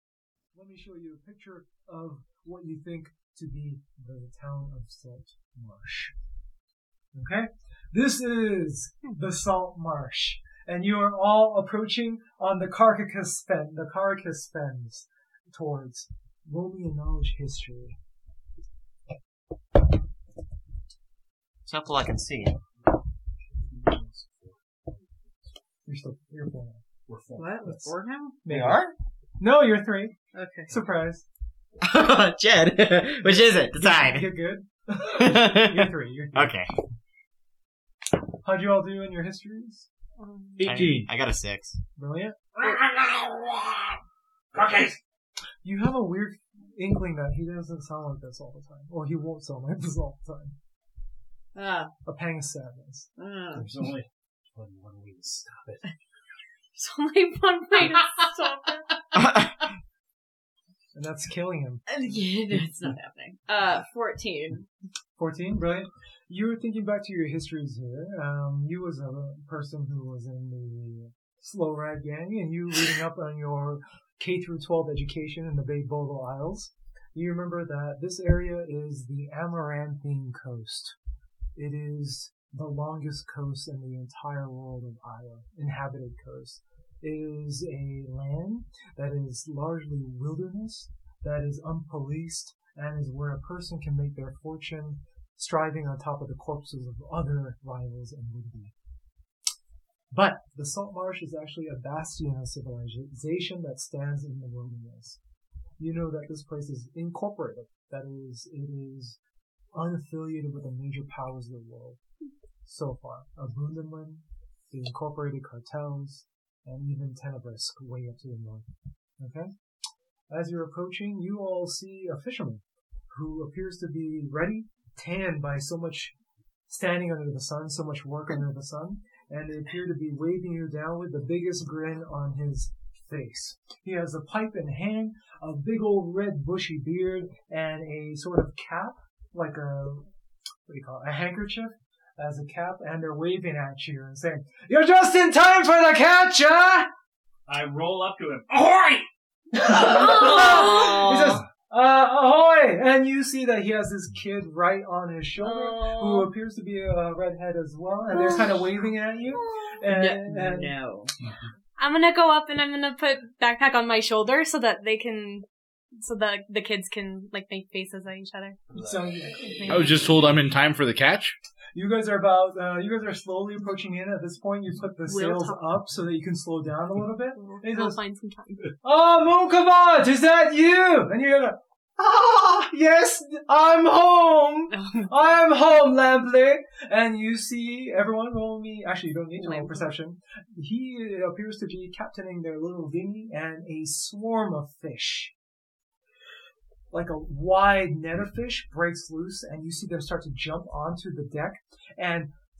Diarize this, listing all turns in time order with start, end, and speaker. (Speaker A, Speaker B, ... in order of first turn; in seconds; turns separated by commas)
Speaker A: 0.5-6.1, Speaker A: 7.1-18.0, Speaker B: 21.7-22.6, Speaker C: 23.6-24.6, Speaker A: 25.9-26.8, Speaker C: 27.1-27.6, Speaker D: 27.4-28.4, Speaker A: 28.4-30.2, Speaker B: 28.5-28.9, Speaker D: 30.3-30.7, Speaker A: 30.7-31.2, Speaker B: 31.8-34.3, Speaker A: 33.7-36.6, Speaker B: 35.1-36.7, Speaker A: 38.4-39.9, Speaker E: 40.3-40.6, Speaker F: 40.6-41.1, Speaker B: 40.6-41.8, Speaker A: 42.0-42.4, Speaker C: 42.5-44.0, Speaker C: 44.5-45.0, Speaker A: 45.6-50.5, Speaker D: 51.5-51.9, Speaker A: 52.1-53.1, Speaker D: 53.2-53.7, Speaker C: 53.5-55.8, Speaker E: 56.8-58.8, Speaker B: 59.2-59.5, Speaker A: 60.9-61.8, Speaker D: 61.9-64.7, Speaker A: 65.2-81.0, Speaker A: 81.5-98.7, Speaker A: 100.1-105.2, Speaker A: 105.8-109.2, Speaker A: 109.7-112.0, Speaker A: 112.6-118.7, Speaker A: 119.2-119.5, Speaker A: 120.3-126.2, Speaker A: 126.7-140.1, Speaker A: 140.7-146.9, Speaker C: 147.5-149.1, Speaker A: 149.5-160.7, Speaker D: 149.6-151.4, Speaker E: 150.2-150.9, Speaker D: 155.4-156.2, Speaker E: 155.6-156.0, Speaker E: 158.1-158.6, Speaker D: 159.9-161.1, Speaker E: 161.8-165.4, Speaker E: 166.0-168.6, Speaker A: 168.7-170.2, Speaker E: 169.7-170.1, Speaker F: 169.7-171.3, Speaker A: 171.7-178.0, Speaker E: 175.1-175.6, Speaker E: 177.4-178.7, Speaker A: 178.8-195.3, Speaker E: 184.7-185.3, Speaker E: 189.4-189.9, Speaker A: 196.9-202.3